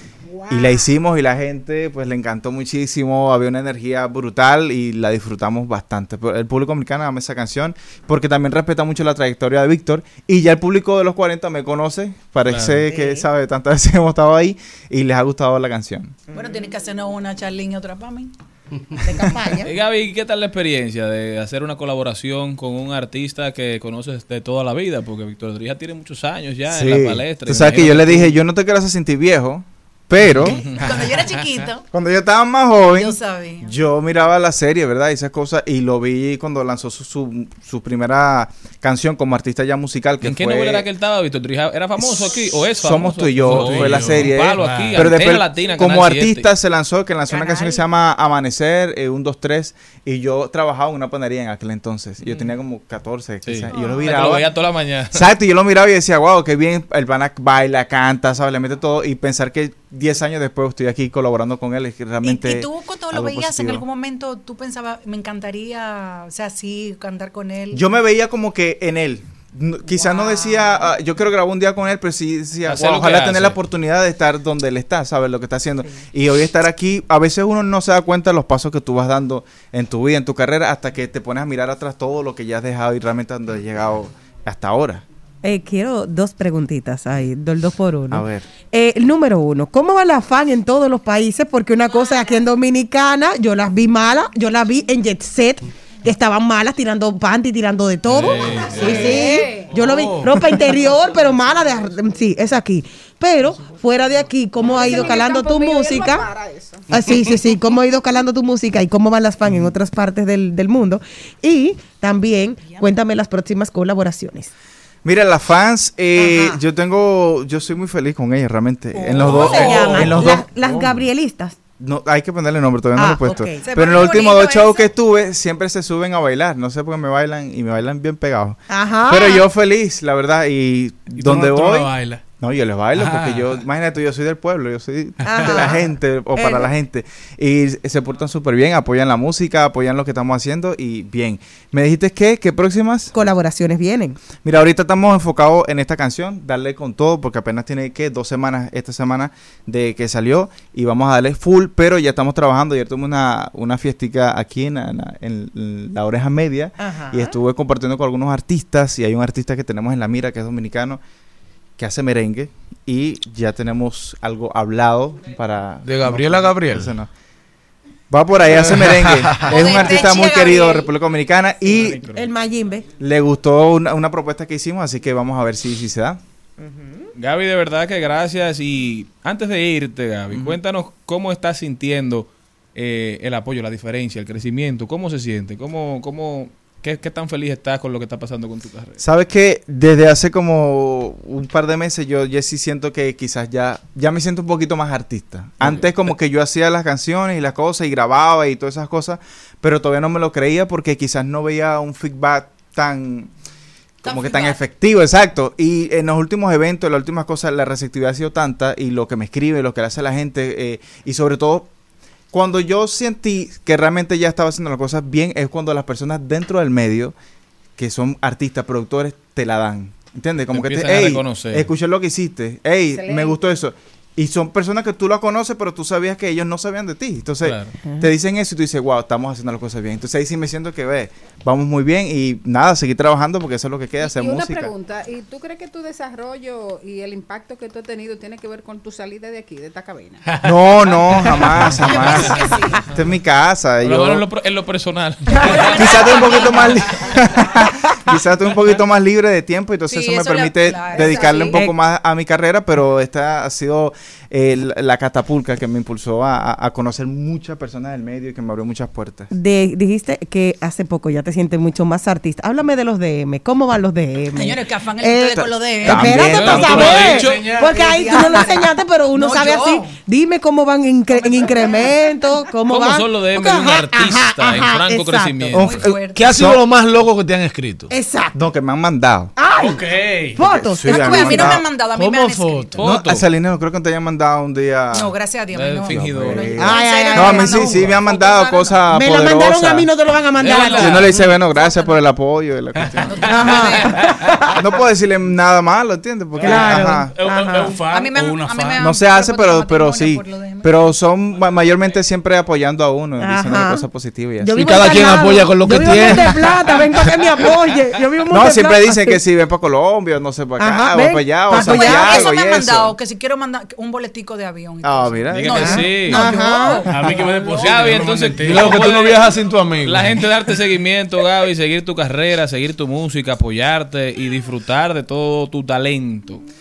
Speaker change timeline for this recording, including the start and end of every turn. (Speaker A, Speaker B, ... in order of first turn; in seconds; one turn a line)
Speaker A: 0.3-0.9
Speaker B: 0.5-16.1
Speaker C: 12.5-12.8
Speaker D: 12.9-13.2
Speaker A: 16.3-18.3
Speaker D: 19.0-19.7
Speaker C: 19.6-28.4
Speaker B: 26.7-30.6
Speaker C: 30.5-31.1
Speaker A: 30.6-31.8
Speaker B: 31.9-40.9
Speaker A: 32.9-33.7
Speaker C: 40.2-46.5
Speaker B: 42.0-54.5
Speaker E: 43.4-45.1
Speaker A: 47.3-47.8
Speaker C: 53.4-55.2
Speaker A: 53.7-54.1
Speaker B: 55.1-63.8
Speaker A: 62.2-67.8
Speaker B: 67.7-85.0
Speaker A: 69.9-70.9
Speaker C: 72.7-73.6
Speaker D: 85.4-106.3
Speaker B: 88.1-88.5
Speaker C: 98.0-99.2
Speaker A: 98.9-99.6
Speaker E: 99.8-100.4
Speaker F: 104.6-106.9
Speaker D: 106.9-114.5
Speaker B: 115.0-120.5
Speaker D: 116.2-116.6
Speaker D: 118.9-121.6
Speaker B: 121.8-143.1
Speaker D: 122.9-123.6
Speaker A: 123.6-124.9
Speaker D: 128.7-129.5
Speaker E: 131.1-132.2
Speaker E: 132.9-133.6
Speaker D: 135.2-135.9
Speaker E: 135.3-135.6
Speaker D: 143.1-144.2
Speaker B: 144.4-161.0
Speaker D: 156.8-157.4
Speaker B: 161.8-167.1
Speaker G: 165.8-166.9
Speaker B: 168.1-172.1
Speaker A: 169.4-170.9
Speaker C: 171.7-172.2
Speaker D: 171.7-172.9
Speaker B: 173.0-176.2
Speaker D: 176.6-177.1
Speaker C: 177.2-189.0
Speaker B: 189.0-203.3
Speaker A: 204.0-204.6
Speaker B: 204.0-211.7
Speaker B: 212.3-217.1
Speaker B: 217.8-234.7
Speaker C: 220.5-221.7
Speaker F: 222.9-223.4
Speaker C: 227.4-227.7
Speaker F: 234.0-240.3
Speaker E: 240.2-242.0
Speaker B: 240.4-244.2
Speaker A: 241.8-242.8
Speaker C: 243.8-246.1
Speaker A: 245.5-246.7
Speaker B: 245.7-259.3
Speaker A: 249.9-251.6
Speaker D: 251.0-251.7
Speaker D: 259.3-275.5
Speaker A: 264.3-269.9
Speaker B: 265.3-267.1
Speaker C: 266.2-267.4
Speaker E: 266.8-268.3
Speaker A: 271.1-271.9
Speaker C: 272.7-275.7
Speaker A: 275.5-276.2
Speaker B: 275.5-276.6
Speaker G: 276.1-277.9
Speaker D: 277.9-278.4
Speaker B: 278.3-279.3
Speaker D: 279.4-279.8
Speaker E: 279.6-280.4
Speaker D: 280.4-281.6
Speaker B: 280.4-281.7
Speaker A: 280.9-282.8
Speaker G: 281.9-282.8
Speaker C: 282.8-283.2
Speaker B: 282.8-285.1
Speaker A: 284.9-288.8
Speaker C: 285.5-286.5
Speaker B: 285.9-289.9
Speaker D: 286.5-287.9
Speaker D: 288.9-291.1
Speaker C: 290.4-291.0
Speaker B: 290.8-293.6
Speaker A: 291.2-292.0
Speaker E: 292.8-294.4
Speaker A: 293.0-294.0
Speaker D: 293.3-294.4
Speaker B: 294.5-297.1
Speaker E: 296.4-298.8
Speaker D: 296.4-297.8
Speaker A: 297.9-300.9
Speaker B: 298.8-304.6
Speaker D: 303.2-303.9
Speaker D: 304.4-309.2
Speaker G: 304.5-306.5
Speaker B: 308.3-312.9
Speaker D: 310.6-312.3
Speaker A: 311.5-316.9
Speaker B: 314.8-315.8
Speaker C: 315.3-316.2
Speaker D: 315.6-316.9
Speaker E: 316.9-319.0
Speaker C: 317.5-326.4
Speaker G: 318.4-320.2